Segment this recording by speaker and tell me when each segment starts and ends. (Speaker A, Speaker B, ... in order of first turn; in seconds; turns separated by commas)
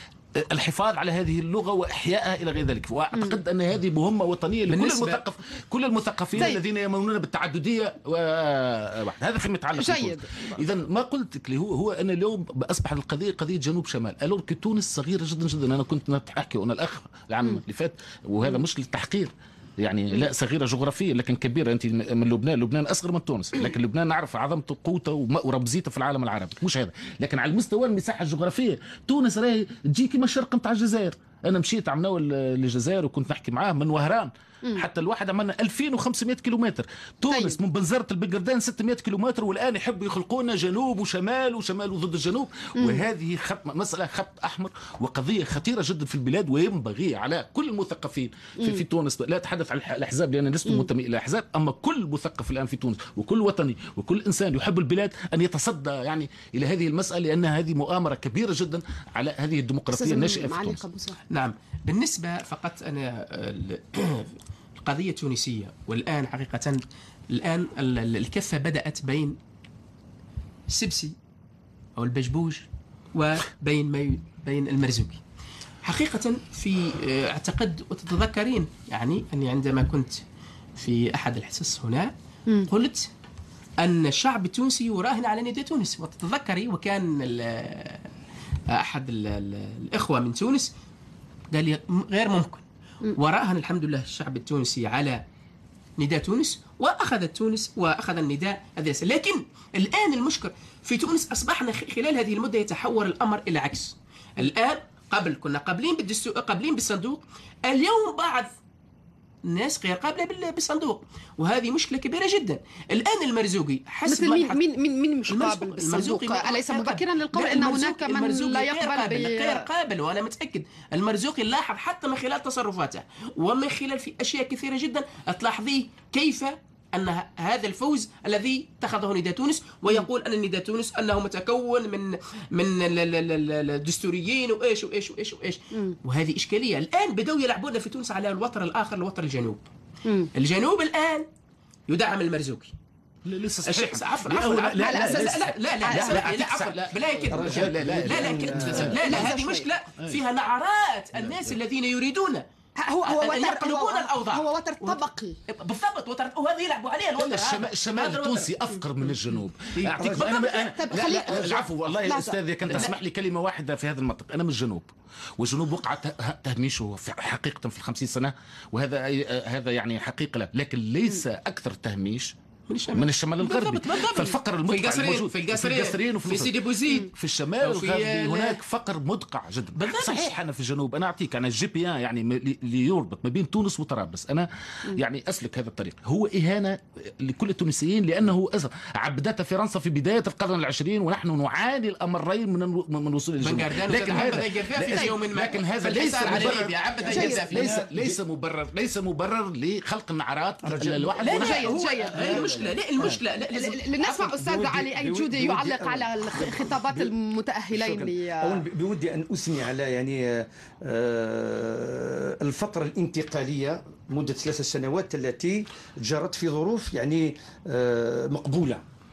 Speaker A: 0.4-60.8, Speaker B: 3.1-3.4, Speaker C: 4.7-5.2, Speaker B: 9.8-10.5, Speaker B: 37.3-37.6, Speaker B: 42.8-43.0, Speaker B: 59.9-61.2, Speaker C: 61.3-69.4, Speaker C: 70.7-71.2, Speaker C: 72.0-75.2, Speaker C: 75.8-80.2, Speaker C: 80.8-82.1, Speaker C: 82.7-83.1, Speaker C: 83.8-88.1, Speaker C: 88.7-90.7, Speaker C: 91.5-92.6, Speaker C: 93.1-95.2, Speaker C: 96.0-108.5, Speaker C: 109.5-114.6, Speaker B: 114.1-119.7, Speaker C: 115.3-139.7, Speaker B: 140.1-140.3, Speaker C: 140.3-141.3, Speaker C: 141.9-142.7, Speaker A: 143.2-149.3, Speaker C: 143.7-152.4, Speaker B: 144.8-146.3, Speaker D: 147.3-149.0, Speaker B: 149.0-149.7, Speaker A: 151.2-151.6, Speaker B: 152.8-155.4, Speaker C: 153.0-159.2, Speaker A: 157.2-172.3, Speaker C: 159.8-160.3, Speaker B: 160.0-162.4, Speaker C: 162.7-163.0, Speaker C: 172.7-178.6, Speaker A: 172.9-203.1, Speaker C: 179.8-180.3, Speaker C: 193.4-197.8, Speaker D: 196.3-196.6, Speaker B: 197.1-197.4, Speaker D: 197.2-198.2, Speaker D: 200.6-201.2, Speaker C: 201.2-204.3, Speaker B: 201.3-202.4, Speaker B: 203.5-208.6, Speaker D: 204.2-207.1, Speaker D: 207.7-218.8